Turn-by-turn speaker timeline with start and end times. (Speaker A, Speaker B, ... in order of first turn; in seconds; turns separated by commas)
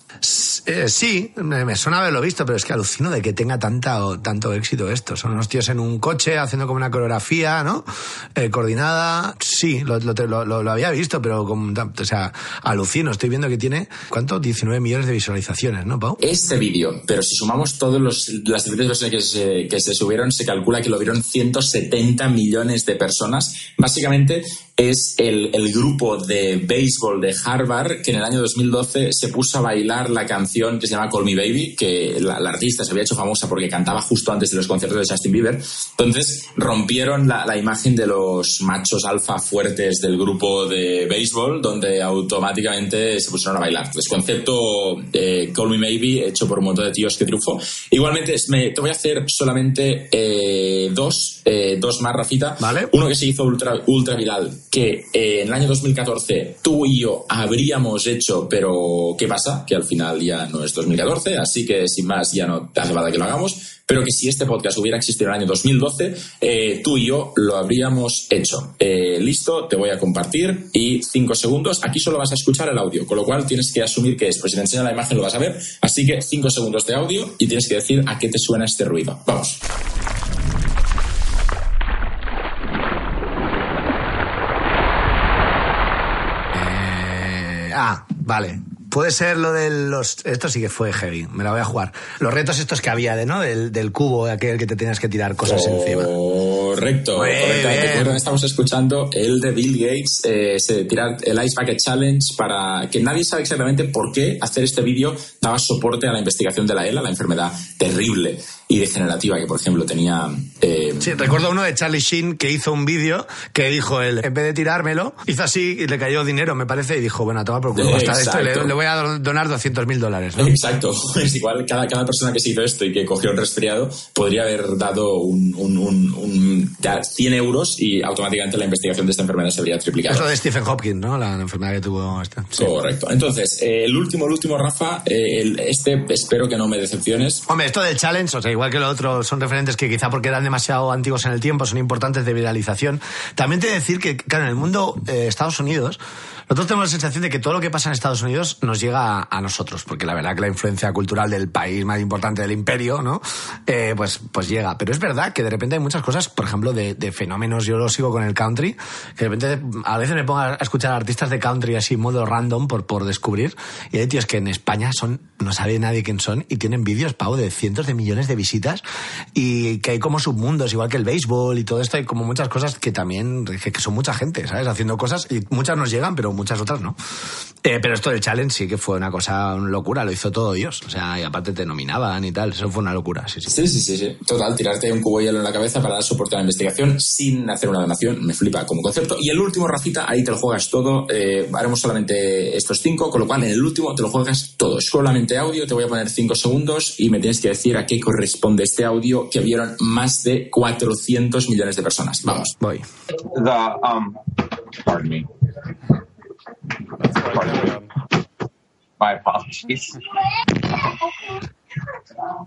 Speaker A: 0.2-16.2, Speaker B: 16.2-79.6, Speaker A: 52.6-52.9, Speaker A: 86.5-96.1, Speaker B: 95.4-111.2, Speaker A: 97.1-98.2, Speaker A: 111.0-120.5, Speaker B: 117.7-118.7, Speaker B: 120.4-130.3, Speaker A: 130.1-132.7, Speaker B: 132.6-137.4, Speaker A: 137.5-168.8, Speaker A: 169.3-177.0, Speaker A: 177.6-183.6, Speaker B: 183.4-202.5, Speaker A: 202.6-202.9, Speaker C: 203.2-204.2, Speaker C: 204.8-205.3, Speaker C: 207.1-207.9, Speaker C: 209.0-210.0